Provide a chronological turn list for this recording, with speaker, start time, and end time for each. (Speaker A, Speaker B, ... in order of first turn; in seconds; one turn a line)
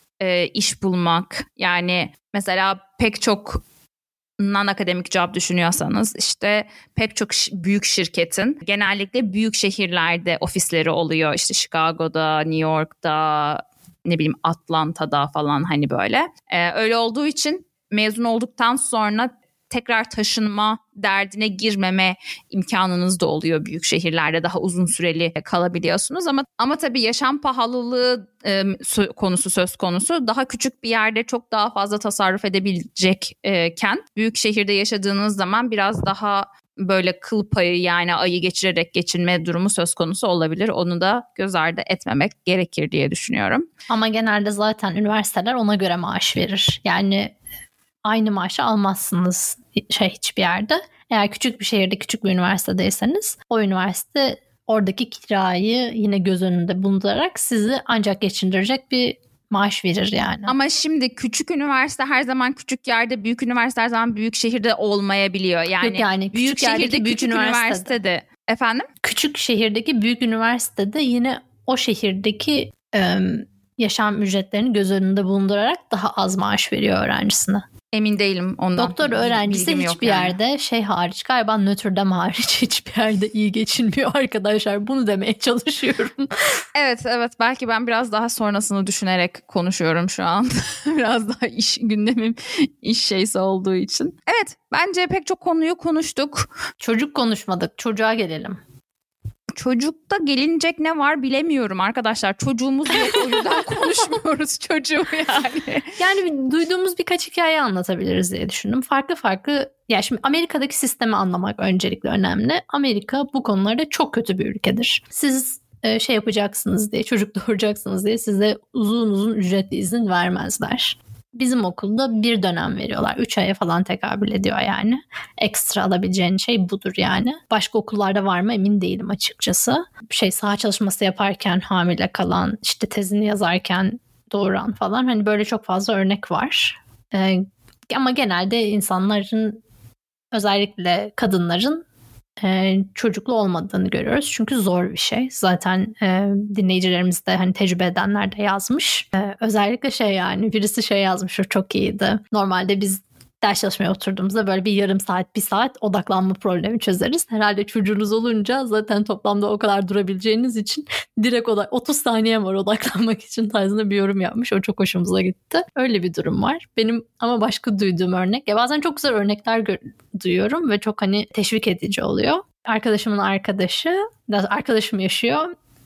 Speaker A: 0.2-3.6
Speaker A: 4.4-43.7
Speaker B: 43.9-47.3
Speaker B: 48.0-60.5
Speaker A: 60.5-68.9
Speaker B: 65.8-68.0
Speaker B: 69.0-77.6
Speaker A: 77.9-80.4
Speaker B: 78.8-86.6
Speaker A: 86.8-96.5
Speaker B: 96.8-98.6
Speaker A: 99.6-105.9
Speaker B: 106.0-139.6
Speaker B: 140.3-141.8
Speaker B: 142.4-175.5